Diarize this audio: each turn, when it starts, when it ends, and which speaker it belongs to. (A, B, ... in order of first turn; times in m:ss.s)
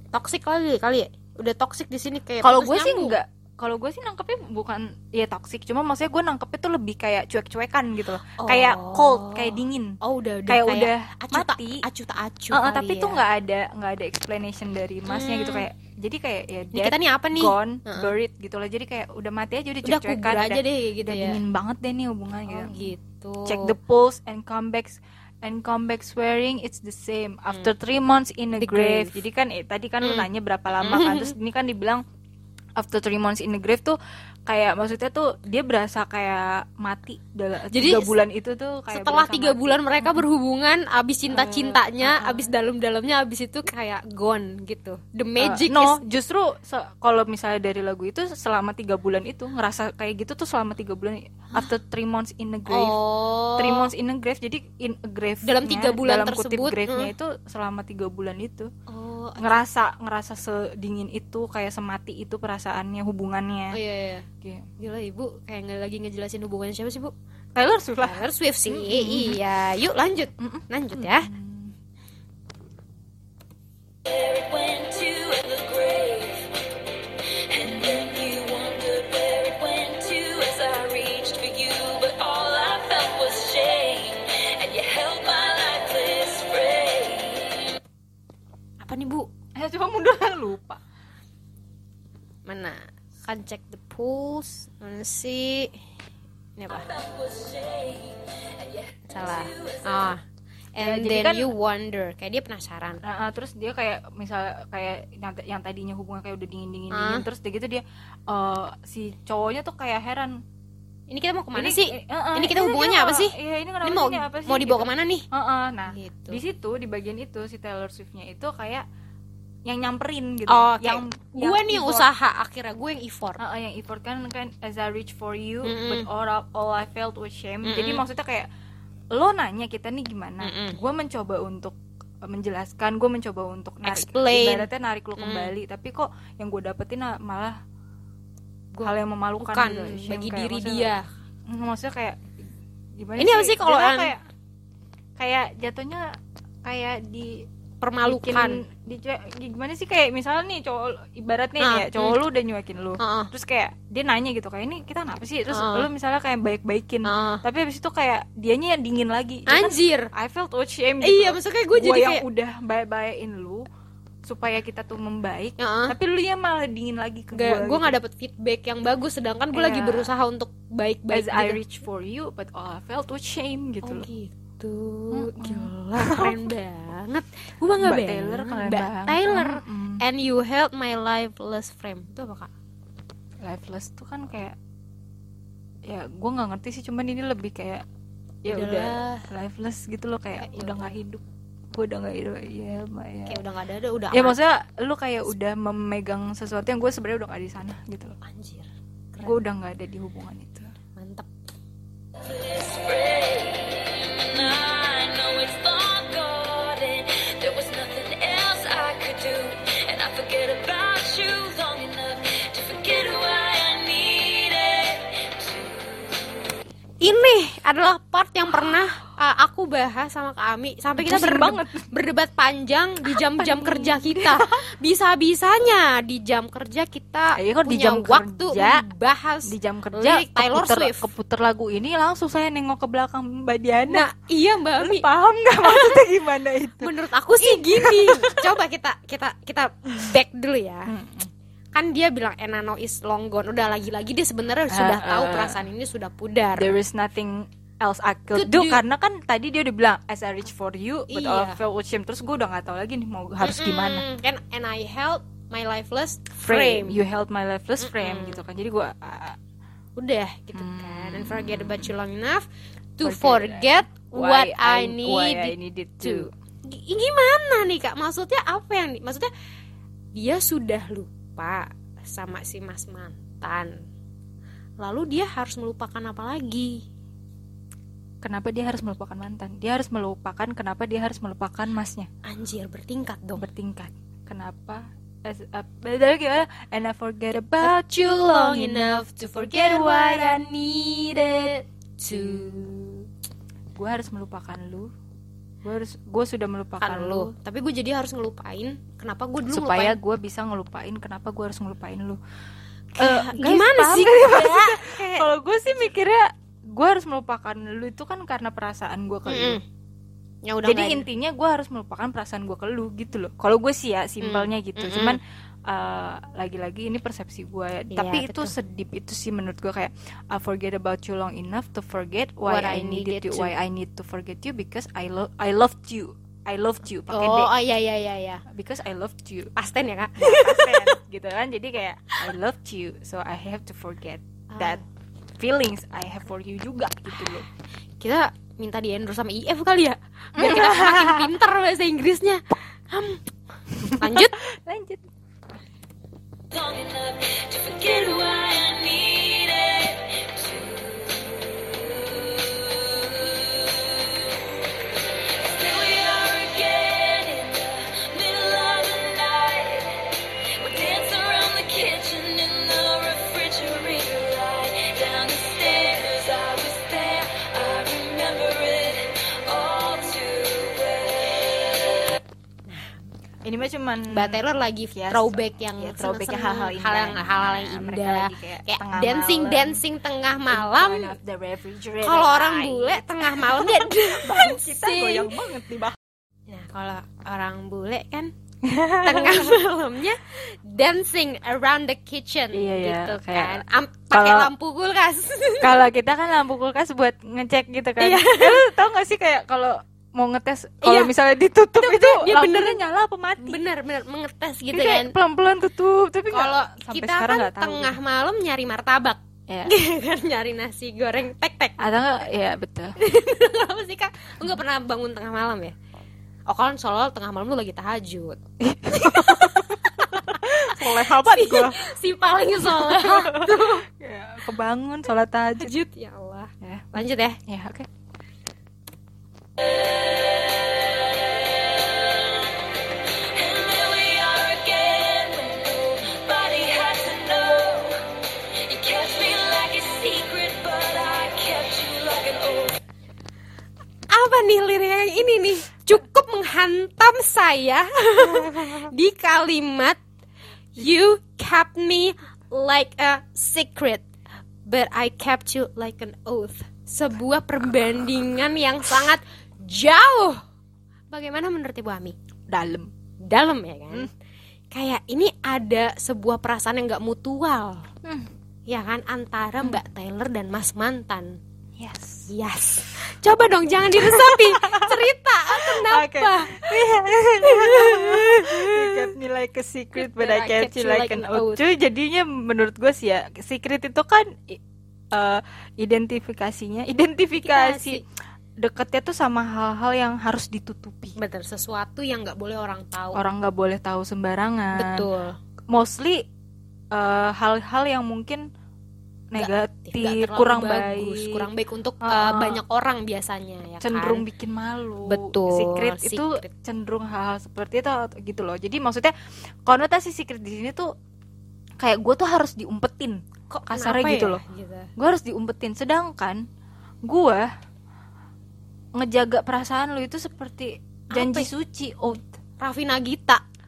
0:00.1-0:03.2 A
0:02.4-0:11.8 B
0:08.4-0:13.2 A
0:12.5-0:22.9 B
0:15.1-0:15.7 A
0:16.7-0:18.1 A
0:19.8-0:21.4 A
0:22.5-0:23.7 A
0:23.4-0:32.0 B
0:28.6-0:29.2 A
0:30.0-0:31.3 A
0:32.8-0:40.3 B
0:37.7-0:38.2 A
0:38.9-0:46.0 A
0:41.3-0:42.5 B
0:45.4-0:53.0 B
0:52.7-0:53.9 A
0:53.6-0:58.7 B
0:55.4-0:57.1 A
0:58.9-0:59.6 A
0:59.4-1:03.8 B
1:03.7-1:04.3 A
1:04.4-1:04.7 B
1:04.8-1:07.1 A
1:07.6-1:09.4 B
1:08.0-1:11.3 A
1:10.4-1:11.8 B
1:14.1-1:16.5 C
1:17.5-1:27.7 C
1:17.7-1:18.0 B
1:28.8-1:29.3 A
1:29.6-1:30.8 B
1:32.5-1:35.8 A
1:36.6-1:36.9 A
1:36.7-1:40.0 C
1:39.1-1:40.2 A
1:40.8-1:43.0 A
1:40.8-1:41.5 B
1:43.0-1:50.4 B
1:46.9-1:47.3 A
1:51.1-1:55.3 A
1:51.5-1:58.8 B
1:55.9-1:56.4 A
1:59.7-2:02.1 B
2:00.5-2:03.4 A
2:03.4-2:08.5 B
2:05.6-2:06.1 A
2:07.6-2:08.0 A
2:09.1-2:17.6 B
2:10.4-2:10.8 A
2:13.8-2:15.5 A
2:18.7-2:21.0 A
2:18.8-2:20.9 B
2:21.5-2:22.2 B
2:23.0-2:24.2 B
2:23.2-2:24.1 A
2:25.2-2:26.1 B
2:26.6-2:27.5 B
2:27.8-2:28.6 A
2:28.0-2:43.6 B
2:31.6-2:32.2 A
2:33.0-2:33.3 A
2:35.5-2:35.9 A
2:37.0-2:37.4 A
2:39.5-2:40.1 A
2:41.0-2:42.2 A
2:44.3-2:48.0 B
2:45.6-2:46.0 A
2:47.3-2:51.6 A
2:49.5-2:50.1 B
2:51.1-2:54.1 B
2:53.8-3:02.5 A
2:55.1-2:56.5 B
2:57.8-3:00.0 B
3:03.4-3:04.6 B
3:05.9-3:07.8 B
3:08.4-3:13.4 B
3:08.5-3:09.3 A
3:10.4-3:11.0 A
3:13.3-3:14.4 A
3:14.1-3:18.2 B
3:18.2-3:19.4 A
3:19.2-3:20.7 B
3:21.0-3:21.3 A
3:22.2-3:36.0 C
3:37.0-3:51.1 A
3:41.0-3:41.9 B
3:43.1-3:44.6 B
3:47.4-3:48.8 B
3:49.5-3:54.1 B
3:53.9-3:55.1 A
3:54.8-3:58.5 B
3:55.6-3:56.0 A
3:56.8-4:00.9 A
4:00.9-4:01.3 B
4:01.8-4:06.7 A
4:04.7-4:05.6 B
4:06.6-4:14.1 B
4:08.3-4:08.8 A
4:11.1-4:11.6 A
4:13.4-4:17.0 A
4:16.4-4:19.4 B
4:17.8-4:18.4 A
4:20.0-4:22.4 A
4:20.5-4:21.9 B
4:23.0-4:29.3 A
4:23.0-4:26.3 B
4:30.1-4:33.8 A
4:34.8-4:36.8 A
4:38.2-4:42.1 B
4:42.2-4:43.4 A
4:43.4-4:50.5 B
4:47.6-4:52.7 A
4:52.1-4:53.0 B
4:53.8-4:54.9 B
4:55.6-4:57.3 B
4:56.8-5:00.0 A
4:59.5-5:02.2 B
5:03.0-5:05.3 A
5:03.0-5:09.6 B
5:09.3-5:09.6 A
5:10.5-5:11.1 A
5:10.6-5:27.5 B
5:14.2-5:15.2 A
5:17.9-5:18.5 A
5:22.5-5:23.5 A
5:27.1-5:28.4 A
5:28.5-5:29.5 B
5:29.6-5:31.0 A
5:30.2-5:34.8 B
5:34.5-5:34.8 A
5:35.4-5:37.5 B
5:38.0-5:43.2 A
5:40.4-5:41.3 B
5:43.8-5:45.0 B
5:44.0-5:44.4 A
5:46.5-5:54.3 C
5:55.4-6:00.1 C
6:00.6-6:12.1 C
6:12.7-6:13.0 A
6:13.4-6:19.8 B
6:14.1-6:21.2 A
6:20.5-6:26.0 B
6:22.0-6:25.3 A
6:26.5-6:28.3 A
6:28.6-6:29.6 B
6:29.0-6:35.8 A
6:32.5-6:34.5 B
6:35.6-6:43.6 B
6:38.0-6:38.7 A
6:40.8-6:41.1 A
6:41.8-6:42.8 A
6:43.4-6:45.2 A
6:44.7-6:48.0 B
6:46.3-6:51.8 A
6:51.8-6:53.0 B
6:53.0-6:55.8 A
6:56.5-7:03.9 A
6:58.6-7:01.9 B
7:02.6-7:05.7 B
7:05.6-7:07.4 A
7:06.6-7:07.9 B
7:09.6-7:12.5 C
7:13.2-7:18.1 C
7:18.6-7:22.8 C
7:24.1-7:30.0 A
7:30.8-7:34.1 A
7:34.7-7:40.4 A
7:41.1-7:42.2 A
7:42.5-7:42.9 B
7:43.2-7:44.1 A
7:44.7-7:47.9 A
7:48.0-7:48.3 B
7:48.7-7:51.4 A
7:51.8-7:52.3 B
7:52.3-7:59.1 A
7:53.9-8:04.6 B
8:00.0-8:01.6 A
8:05.1-8:08.0 B
8:07.4-8:08.0 A
8:08.6-8:11.2 B
8:11.2-8:13.2 A
8:13.1-8:15.1 B
8:14.7-8:15.4 A
8:15.7-8:16.2 B
8:16.9-8:18.5 B
8:19.3-8:21.4 B
8:19.4-8:24.2 A
8:22.0-8:22.6 B
8:23.8-8:29.1 B
8:25.1-8:26.5 A
8:29.6-8:30.9 B
8:31.8-8:34.4 B
8:33.5-8:34.9 A
8:35.0-8:36.4 B
8:37.0-8:37.5 B
8:39.0-8:42.3 B
8:41.1-8:41.5 A
8:42.6-8:43.4 A